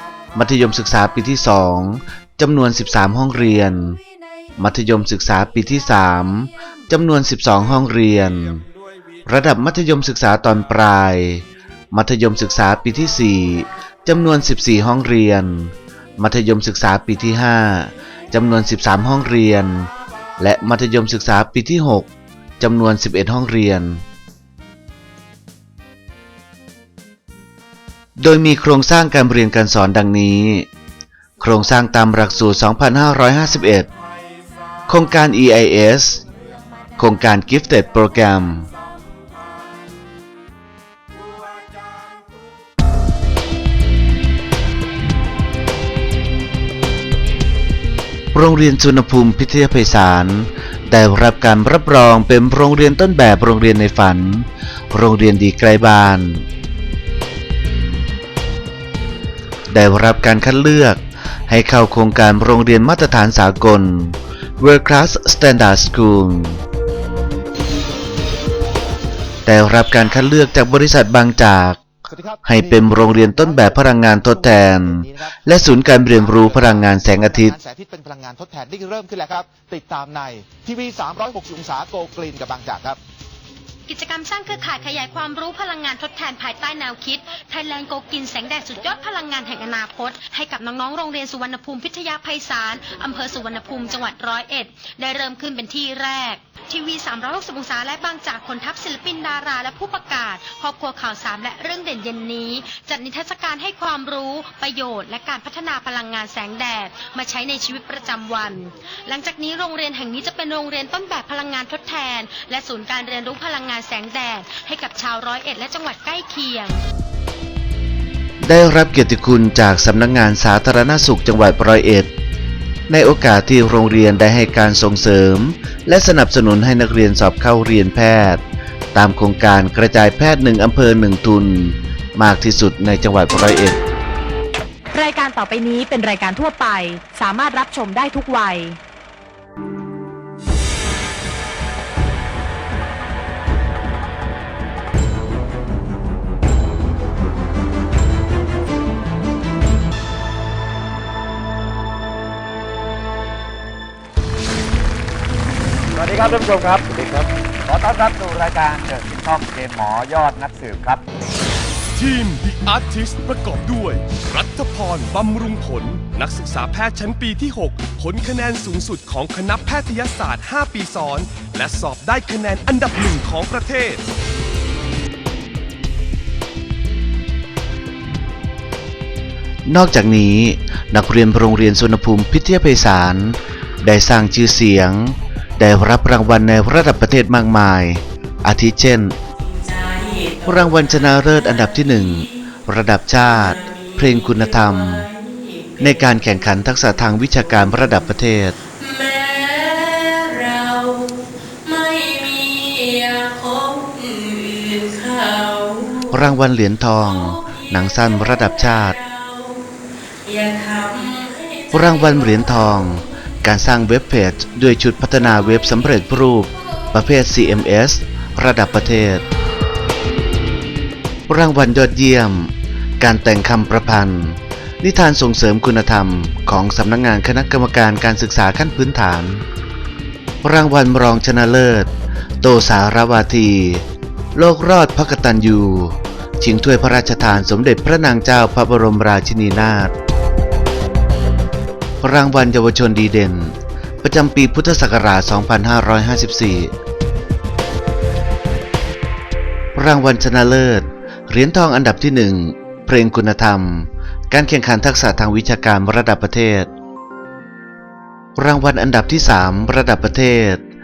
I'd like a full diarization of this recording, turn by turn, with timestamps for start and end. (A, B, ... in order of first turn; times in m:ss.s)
0:00.4-0:04.0 A
0:04.6-0:08.7 A
0:09.3-0:22.1 A
0:22.6-0:24.0 A
0:28.2-0:30.7 A
0:31.4-0:33.9 A
0:34.9-0:36.3 A
0:37.0-0:38.7 A
0:48.3-0:56.5 A
0:59.7-1:06.6 A
1:09.5-1:11.8 A
1:12.1-1:23.0 B
1:12.4-1:17.6 A
1:23.9-1:56.8 C
1:58.4-2:02.1 A
2:02.9-2:08.4 A
2:08.9-2:13.8 A
2:14.9-2:18.8 D
2:36.0-2:41.0 E
2:42.0-2:54.0 F
2:59.7-3:09.2 A
3:10.4-3:15.1 A
3:15.8-3:18.6 A
3:19.1-3:20.8 G
3:21.8-3:25.6 G
3:26.0-3:29.0 A
3:30.6-3:31.3 G
3:31.7-3:39.2 A
3:41.3-3:49.4 A
3:50.4-3:51.9 A
3:52.4-3:53.8 A
3:54.4-3:59.9 A
4:02.0-4:06.7 A
4:09.8-4:16.7 A
4:18.4-4:20.6 A